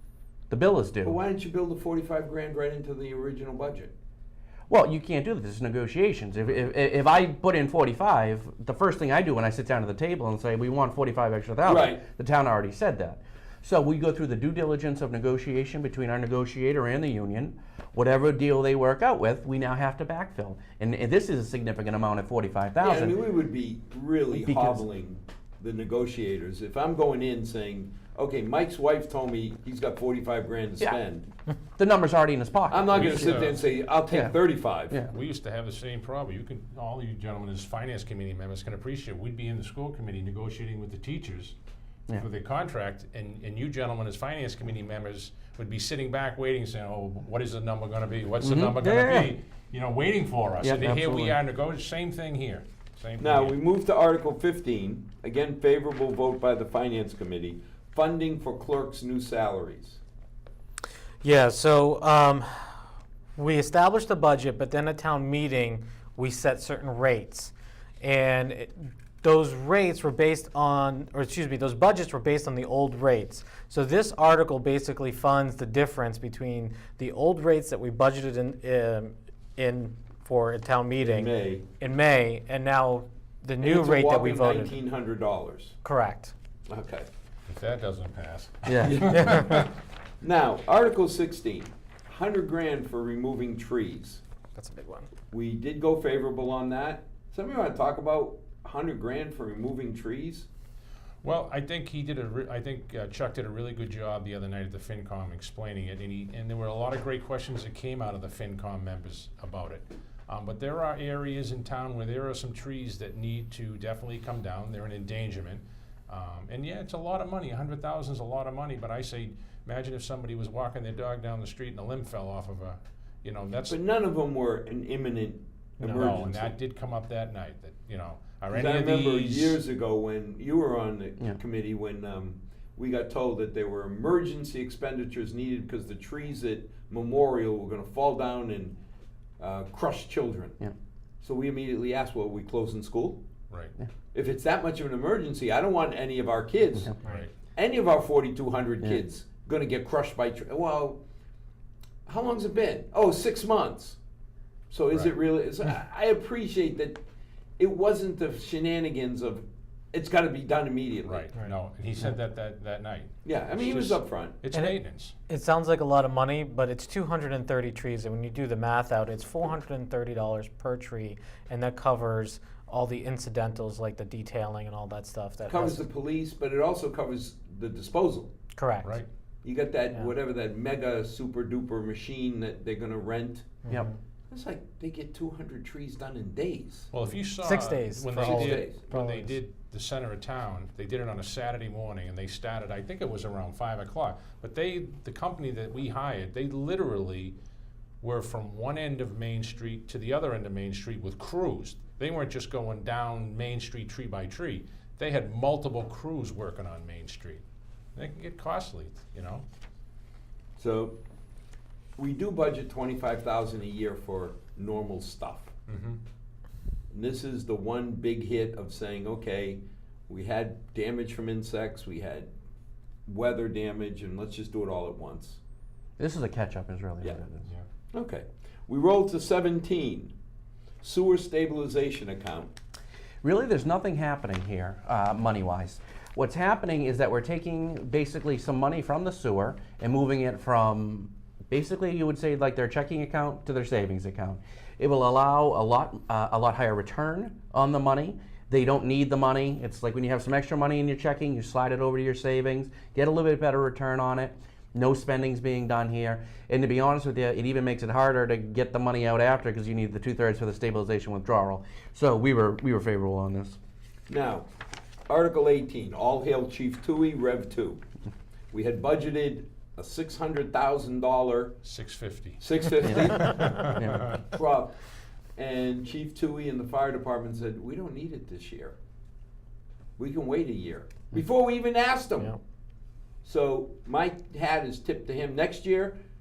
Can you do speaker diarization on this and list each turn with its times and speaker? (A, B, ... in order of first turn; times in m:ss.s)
0:00.5-0:01.2 A
0:01.0-0:03.9 B
0:04.7-0:23.2 A
0:11.6-0:12.0 B
0:22.8-0:31.3 B
0:24.3-0:24.8 A
0:31.8-0:33.5 A
0:32.7-0:35.0 B
0:32.9-0:33.6 C
0:34.1-0:34.4 A
0:35.1-0:41.6 C
0:42.2-0:53.6 C
0:48.4-0:49.3 A
0:50.6-0:51.4 A
0:53.2-1:00.0 B
1:01.2-1:02.7 D
1:03.4-1:24.8 D
1:21.0-1:21.7 B
1:23.6-1:25.8 B
1:25.8-1:26.3 D
1:26.7-1:27.1 B
1:27.5-1:29.7 C
1:28.7-1:29.2 A
1:28.8-1:29.1 B
1:30.2-1:34.2 B
1:34.5-1:35.1 D
1:35.3-1:40.5 B
1:41.2-2:03.8 C
2:03.7-2:06.5 B
2:05.8-2:06.1 D
2:05.8-2:09.6 C
2:08.5-2:18.8 B
2:19.4-2:20.6 B
2:21.2-2:23.2 B
2:24.1-2:26.9 B
2:27.0-2:27.3 C
2:27.5-2:31.0 B
2:32.1-2:34.0 B
2:34.7-2:37.0 B
2:37.6-2:41.3 B
2:41.0-2:45.1 C
2:43.2-2:44.4 B
2:44.5-2:44.8 D
2:45.3-2:55.9 D
2:55.4-2:58.3 B
2:58.6-2:59.0 D
2:59.4-3:03.5 B
3:03.6-3:04.0 D
3:04.3-3:06.9 B
3:06.9-3:17.3 C
3:07.4-3:09.4 D
3:08.2-3:08.9 B
3:18.0-3:27.4 C
3:27.9-3:29.4 C
3:30.6-3:31.0 B
3:32.0-3:35.5 B
3:35.7-3:36.0 C
3:36.9-3:42.3 B
3:43.1-3:45.4 B
3:46.0-3:47.5 A
3:47.9-3:50.1 B
3:50.8-3:52.5 B
3:53.2-4:23.6 A
4:24.1-4:24.5 B
4:25.1-4:27.8 B
4:28.5-4:31.6 B
4:31.6-4:34.2 C
4:32.4-4:33.3 B
4:32.8-4:34.1 A
4:34.3-4:34.7 B
4:35.4-4:38.8 B
4:40.0-4:42.3 B
4:43.2-4:46.0 B